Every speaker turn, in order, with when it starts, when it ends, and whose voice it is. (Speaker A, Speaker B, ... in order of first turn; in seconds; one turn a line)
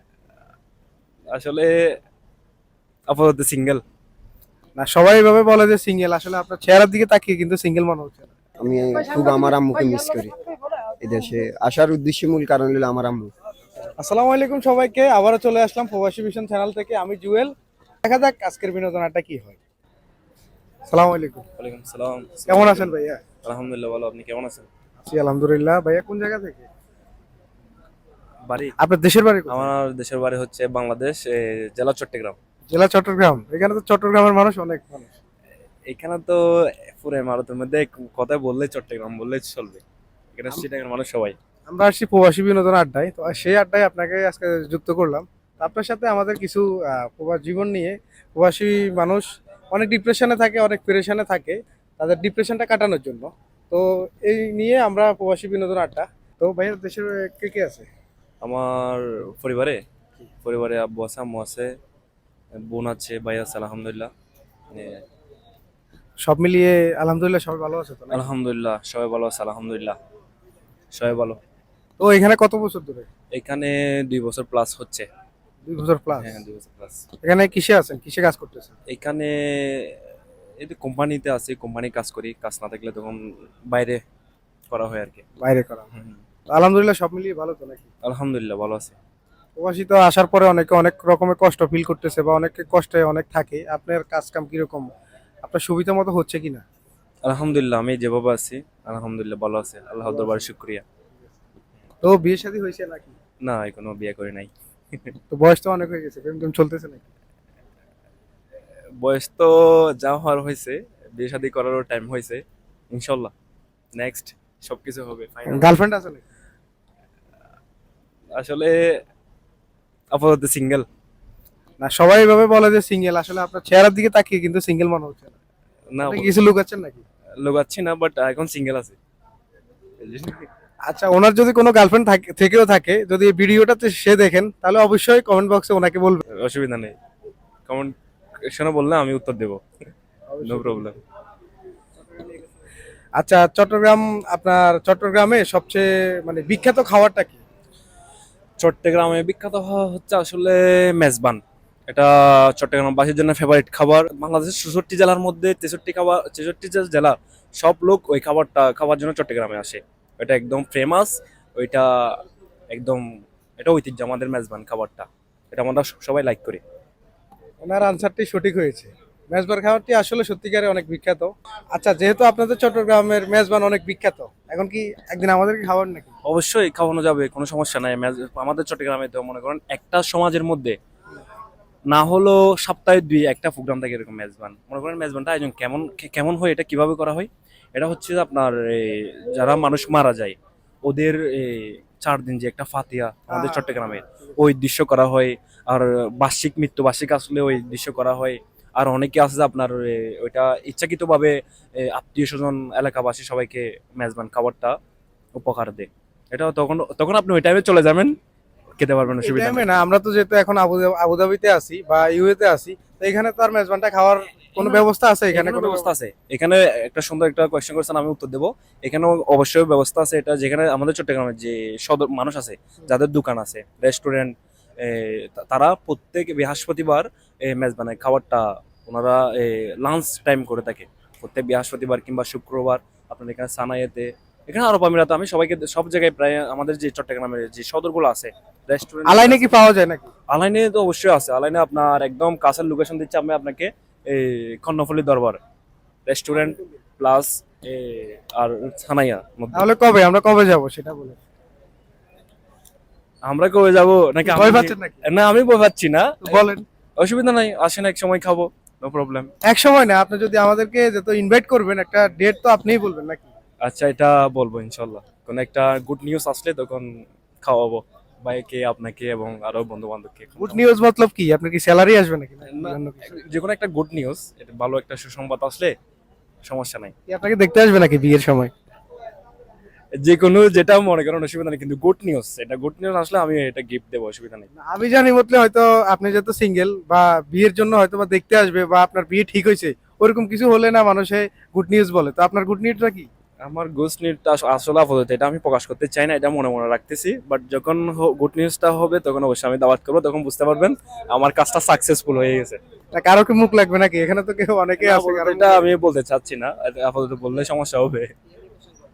Speaker A: 1.3-1.7
Speaker A: 3.1-3.8
Speaker B: 4.8-8.3
Speaker C: 8.6-10.4
Speaker C: 11.0-13.3
Speaker B: 14.0-19.6
Speaker B: 20.9-21.4
Speaker A: 21.6-22.9
Speaker B: 22.5-23.2
Speaker A: 23.4-24.7
Speaker B: 25.0-26.7
Speaker A: 28.5-28.7
Speaker B: 28.8-29.7
Speaker A: 29.5-32.4
Speaker B: 32.7-35.1
Speaker A: 35.9-39.8
Speaker A: 40.4-41.4
Speaker B: 41.7-57.9
Speaker A: 58.4-59.8
Speaker A: 60.4-61.7
Speaker A: 62.6-64.1
Speaker A: 64.7-65.0
Speaker B: 66.2-68.2
Speaker A: 68.1-70.0
Speaker A: 70.9-71.4
Speaker B: 72.0-73.1
Speaker A: 73.3-75.0
Speaker B: 75.6-76.4
Speaker A: 76.1-77.1
Speaker B: 77.2-78.7
Speaker A: 78.9-80.0
Speaker A: 80.6-84.0
Speaker A: 84.7-85.2
Speaker B: 85.4-85.9
Speaker B: 86.5-87.9
Speaker A: 88.0-89.0
Speaker B: 89.6-94.9
Speaker B: 95.4-96.6
Speaker A: 97.2-100.8
Speaker B: 100.0-100.5
Speaker B: 102.0-103.2
Speaker A: 103.4-105.1
Speaker B: 105.3-107.0
Speaker A: 109.0-113.3
Speaker A: 113.9-115.8
Speaker B: 115.5-116.2
Speaker A: 118.3-118.8
Speaker A: 120.1-120.8
Speaker B: 121.8-125.3
Speaker A: 125.9-126.3
Speaker B: 126.0-127.0
Speaker A: 127.4-129.0
Speaker A: 130.0-130.4
Speaker B: 130.9-136.2
Speaker A: 136.3-136.9
Speaker A: 137.7-139.6
Speaker B: 140.3-140.9
Speaker A: 140.4-141.0
Speaker B: 143.2-147.4
Speaker A: 148.6-163.0
Speaker A: 163.6-166.6
Speaker B: 167.6-176.1
Speaker A: 176.2-180.8
Speaker A: 181.9-204.8
Speaker B: 193.3-194.0
Speaker A: 205.3-208.2
Speaker A: 208.8-209.6
Speaker B: 209.2-215.9
Speaker A: 214.6-239.5
Speaker B: 239.0-240.1
Speaker A: 240.3-245.4
Speaker A: 246.1-249.7
Speaker B: 249.5-251.2
Speaker A: 253.2-256.4
Speaker B: 254.2-255.0
Speaker B: 256.2-256.7
Speaker A: 257.0-259.3
Speaker B: 259.4-263.3
Speaker A: 263.6-270.6
Speaker B: 270.4-273.2
Speaker A: 272.5-275.7
Speaker A: 276.4-276.9
Speaker B: 277.1-278.5
Speaker A: 280.0-284.5
Speaker B: 284.6-293.1
Speaker A: 293.4-302.6
Speaker B: 302.9-305.7
Speaker A: 304.8-308.1